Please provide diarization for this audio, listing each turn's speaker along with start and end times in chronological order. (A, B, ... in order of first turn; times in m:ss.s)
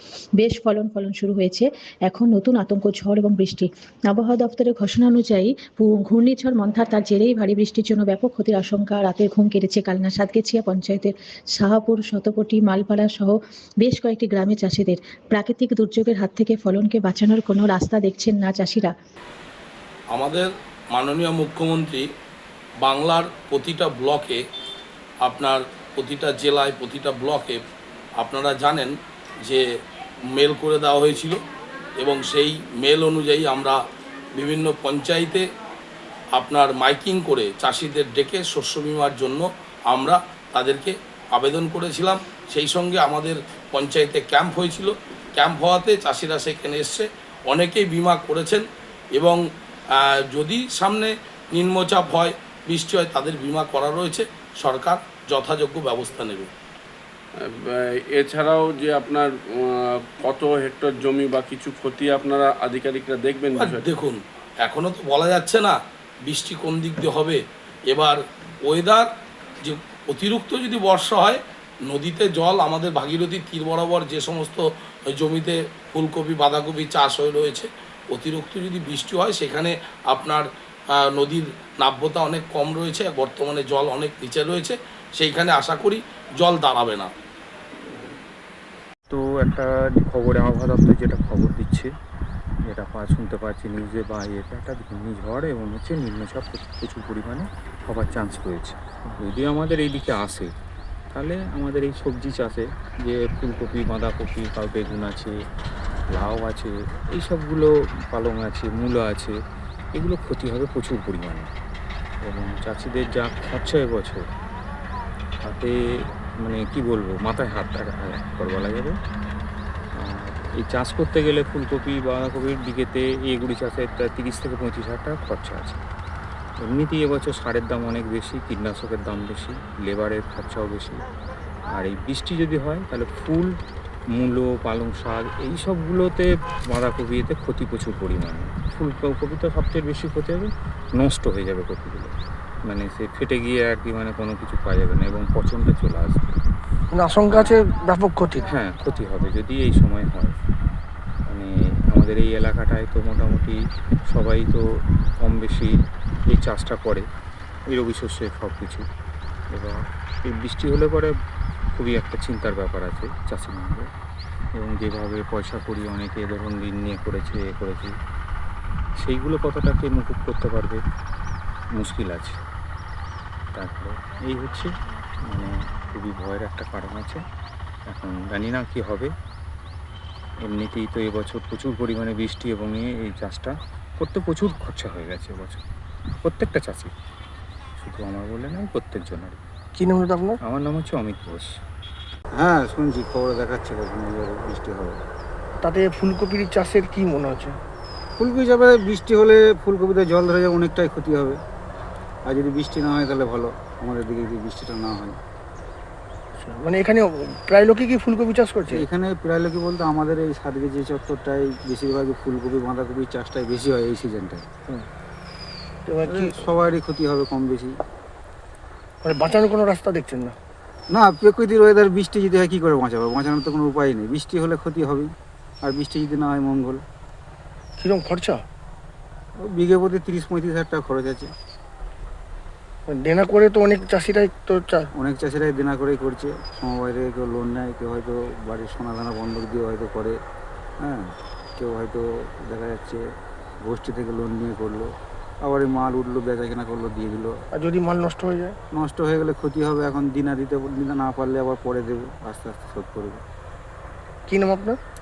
0:00.4-0:18.9 A
0:20.1-0:22.0 B
0:22.8-0:24.4 B
0:25.2-0:27.6 B
0:28.2-0:28.9 B
0:30.4-0:31.4 B
0:32.0-0:33.8 B
0:34.4-0:35.4 B
0:36.4-0:48.6 B
0:50.0-0:56.5 B
0:57.4-1:03.9 C
1:03.6-1:05.8 B
1:06.3-1:07.4 B
1:07.9-1:09.1 B
1:09.6-1:20.4 B
1:21.0-1:27.1 B
1:29.1-1:31.9 D
1:32.7-1:40.5 D
1:41.1-1:45.4 D
1:46.1-1:49.4 D
1:50.0-1:51.5 D
1:52.2-1:54.2 D
1:55.4-1:55.8 D
1:56.4-1:58.9 D
2:00.0-2:05.8 D
2:06.6-2:11.0 D
2:11.7-2:13.5 D
2:14.2-2:22.1 D
2:22.7-2:26.4 D
2:26.9-2:28.5 E
2:27.3-2:27.6 D
2:28.5-2:30.3 D
2:31.3-2:33.6 D
2:34.1-2:34.6 D
2:35.2-2:35.7 D
2:36.3-2:37.0 D
2:37.7-2:38.8 D
2:39.5-2:41.1 D
2:41.8-2:43.9 D
2:44.6-2:47.9 D
2:49.0-2:50.8 D
2:51.8-2:52.4 D
2:53.6-2:54.7 D
2:55.3-2:57.2 D
2:57.9-2:59.1 D
3:00.5-3:05.6 D
3:06.2-3:06.9 D
3:07.8-3:09.4 D
3:09.8-3:10.4 E
3:10.5-3:11.5 D
3:12.4-3:15.0 F
3:15.6-3:17.6 E
3:18.2-3:21.4 F
3:22.3-3:25.2 F
3:26.4-3:28.8 E
3:28.7-3:34.4 F
3:35.9-3:36.4 E
3:36.1-3:37.8 F
3:39.0-3:40.4 E
3:40.9-3:45.1 F
3:45.6-3:46.8 F
3:47.8-3:48.4 E
3:49.4-3:51.3 F
3:52.9-3:54.9 E
3:55.0-4:00.2 F
4:01.6-4:03.0 F
4:03.6-4:04.9 F
4:05.4-4:07.3 F
4:07.5-4:08.5 E
4:08.7-4:13.2 F
4:14.3-4:14.8 E